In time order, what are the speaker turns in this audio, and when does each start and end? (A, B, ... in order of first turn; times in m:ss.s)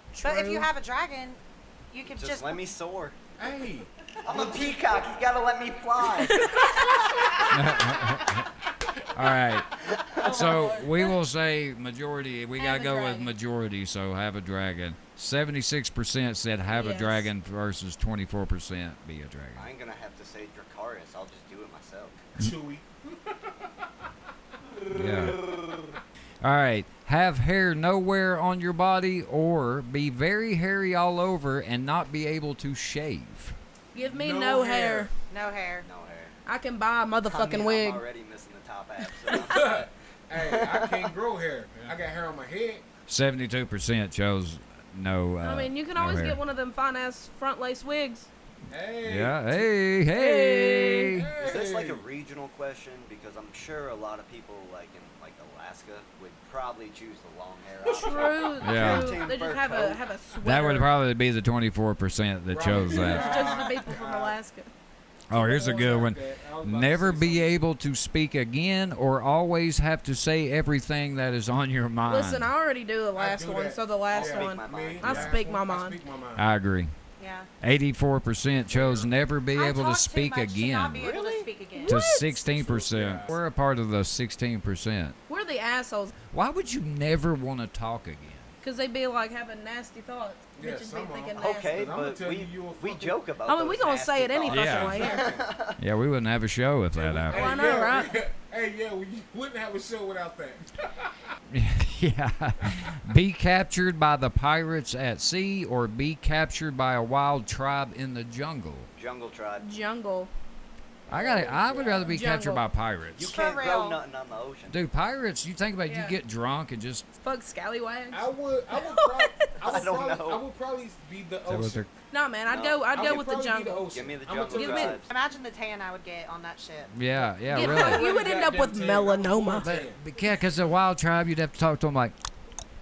0:00.1-0:00.7 A
0:00.2-0:01.4 B
0:01.9-0:02.7 B
0:02.1-0:03.2 C
0:03.4-0:04.8 D
0:04.2-0:07.5 C
0:06.2-0:07.0 A
0:07.5-0:08.5 E
0:09.1-0:19.7 E
0:09.8-0:10.6 C
0:10.2-0:11.1 A
0:10.2-0:10.8 D
0:12.6-0:13.3 A
0:16.7-0:17.3 A
0:19.6-0:22.3 C
0:22.4-0:24.1 D
0:24.9-0:26.0 C
0:24.9-0:25.4 E
0:26.4-0:33.6 E
0:33.9-0:35.1 A
0:34.0-0:35.1 D
0:35.3-0:35.9 B
0:35.8-0:36.3 C
0:36.5-0:38.0 A
0:37.3-0:41.1 C
0:39.3-0:42.8 D
0:43.1-0:46.4 E
0:45.4-0:48.3 A
0:48.7-0:49.7 D
0:49.0-0:51.3 E
0:50.1-0:51.2 A
0:51.0-0:52.0 D
0:51.4-1:00.0 C
0:57.9-1:01.0 A
0:58.6-0:59.2 E
1:00.4-1:03.5 E
1:02.5-1:04.4 D
1:02.9-1:04.7 A
1:05.3-1:12.5 E
1:05.3-1:07.6 D
1:12.0-1:16.0 A
1:13.2-1:16.5 D
1:14.1-1:15.3 C
1:16.4-1:16.9 E
1:17.2-1:17.5 B
1:17.6-1:21.1 E
1:18.7-1:19.1 D
1:19.5-1:22.0 B
1:21.0-1:21.5 C
1:21.8-1:22.4 A
1:21.9-1:25.2 E
1:22.4-1:23.3 D
1:25.3-1:26.1 A
1:26.3-1:28.5 E
1:28.6-1:31.9 A
1:30.6-1:33.2 D
1:31.4-1:35.8 C
1:33.5-1:35.3 A
1:34.5-1:35.1 E
1:34.7-1:35.6 D
1:35.8-1:37.7 E
1:36.9-1:41.3 D
1:37.3-1:38.2 A
1:41.5-1:48.9 E
1:49.0-1:49.7 C
1:49.6-1:50.3 A
1:51.1-1:52.4 D
1:51.1-1:53.3 E
1:52.1-1:52.6 A
1:53.2-1:54.8 C
1:53.3-1:54.0 B
1:54.7-1:57.1 E
1:55.9-1:56.2 A
1:57.2-1:59.8 A
1:58.1-2:01.9 D
1:59.6-2:00.4 C
2:01.5-2:01.9 E
2:02.1-2:03.8 A
2:02.5-2:02.8 C
2:02.9-2:05.0 D
2:03.9-2:05.1 C
2:04.5-2:05.0 A
2:05.0-2:06.9 B
2:06.9-2:08.1 E
2:07.5-2:09.7 A
2:07.5-2:10.0 D
2:09.6-2:12.1 E